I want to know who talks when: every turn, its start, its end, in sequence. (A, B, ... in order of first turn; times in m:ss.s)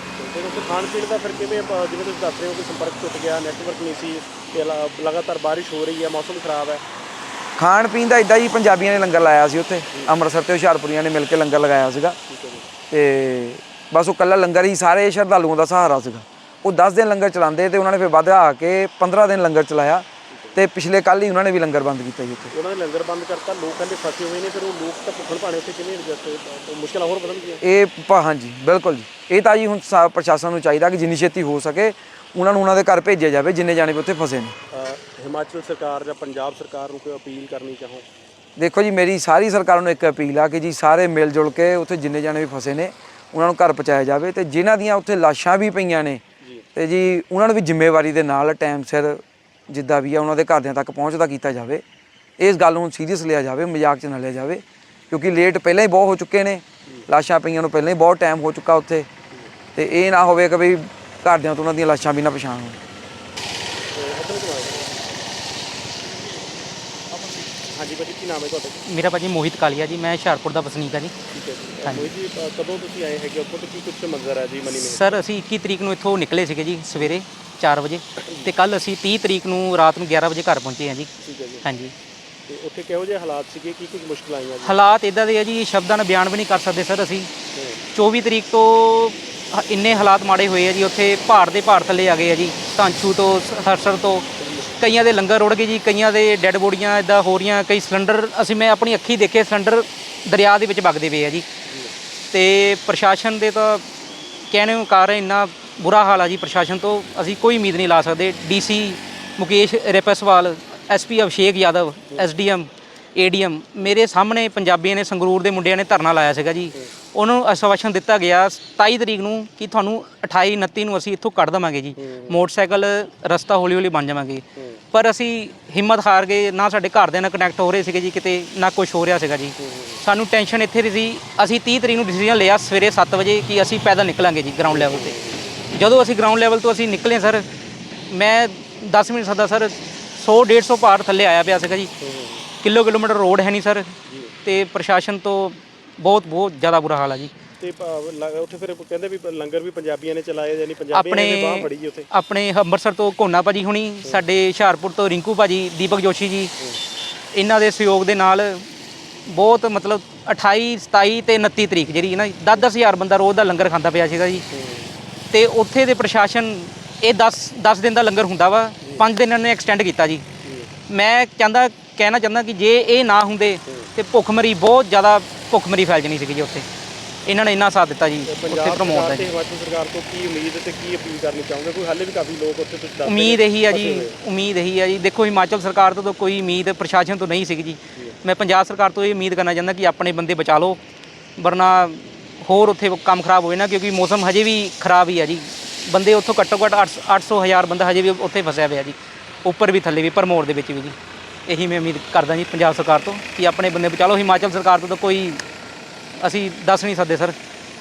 0:00.2-0:06.8 A
0:07.6-0:12.2 B
0:12.3-0:12.7 A
0:12.9-0:22.5 B
0:20.3-0:20.6 A
0:22.5-0:27.6 A
0:27.6-0:34.6 B
0:34.7-0:38.0 A
0:38.6-0:46.2 B
0:46.8-0:51.8 B
0:52.4-0:59.1 B
0:59.8-1:02.8 B
1:03.9-1:05.1 A
1:07.7-1:08.8 A
1:08.9-1:11.1 C
1:11.3-1:15.2 A
1:11.8-1:12.1 C
1:14.7-1:21.1 C
1:18.2-1:18.5 A
1:21.2-1:21.7 A
1:21.6-1:21.9 C
1:22.5-1:24.8 A
1:24.6-1:27.3 C
1:27.5-1:27.8 A
1:27.9-1:34.3 C
1:34.4-1:34.7 A
1:34.8-1:41.4 C
1:41.7-1:41.9 A
1:42.3-1:43.9 C
1:44.5-2:15.2 C
2:02.0-2:02.4 A
2:04.6-2:04.8 A
2:09.6-2:10.0 A
2:14.7-2:15.5 A
2:15.7-2:17.5 C
2:18.1-2:21.9 C
2:22.0-2:22.5 A
2:22.6-2:23.9 C
2:24.1-2:24.4 A
2:24.4-2:27.3 C
2:27.6-2:32.1 A
2:30.9-2:36.5 C
2:37.3-2:38.7 C
2:39.3-2:44.5 C
2:44.5-2:44.9 A
2:45.3-2:50.2 C
2:50.4-2:50.7 A
2:50.9-2:56.7 C
2:57.3-2:59.3 C
2:58.3-3:04.2 A
3:03.0-3:10.8 C
3:11.4-3:21.0 C
3:21.5-3:25.4 C
3:26.2-3:27.4 C